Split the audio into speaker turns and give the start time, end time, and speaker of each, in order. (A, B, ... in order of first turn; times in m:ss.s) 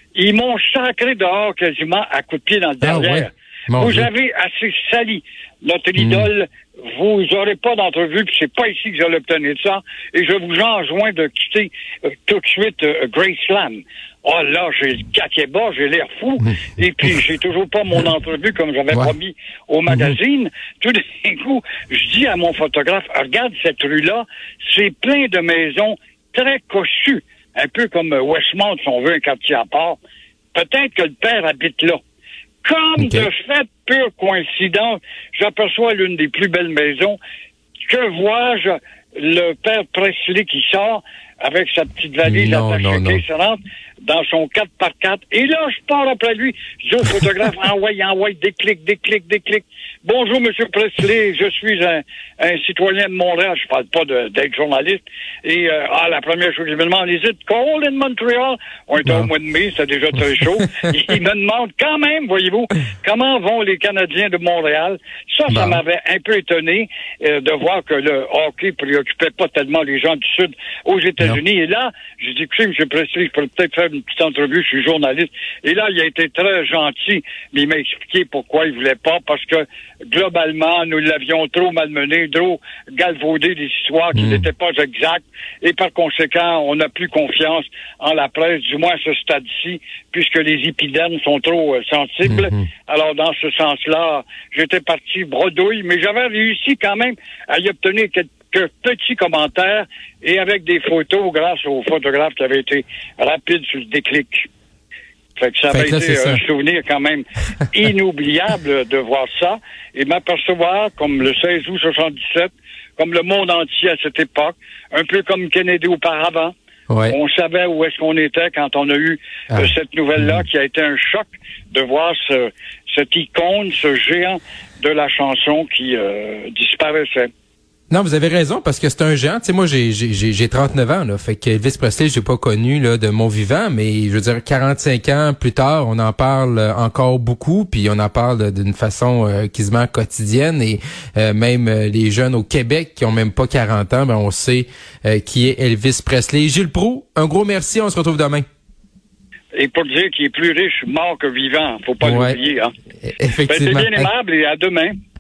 0:00.2-0:30.0 A
0:02.8-0:04.1 B
0:06.0-0:06.3 B
0:30.5-0:32.0 A
0:32.6-0:37.2 A
0:33.0-0:33.3 B
0:37.9-1:44.5 A
0:42.2-0:43.2 B
1:05.5-1:05.8 B
1:24.2-1:24.5 B
1:32.3-1:32.7 B
1:45.4-1:56.5 A
1:45.7-1:46.4 B
1:56.9-1:57.2 B
1:57.1-2:07.3 A
2:07.9-2:28.4 B
2:29.5-2:32.7 A
2:32.0-2:32.4 B
2:33.0-2:34.1 B
2:33.5-2:34.9 A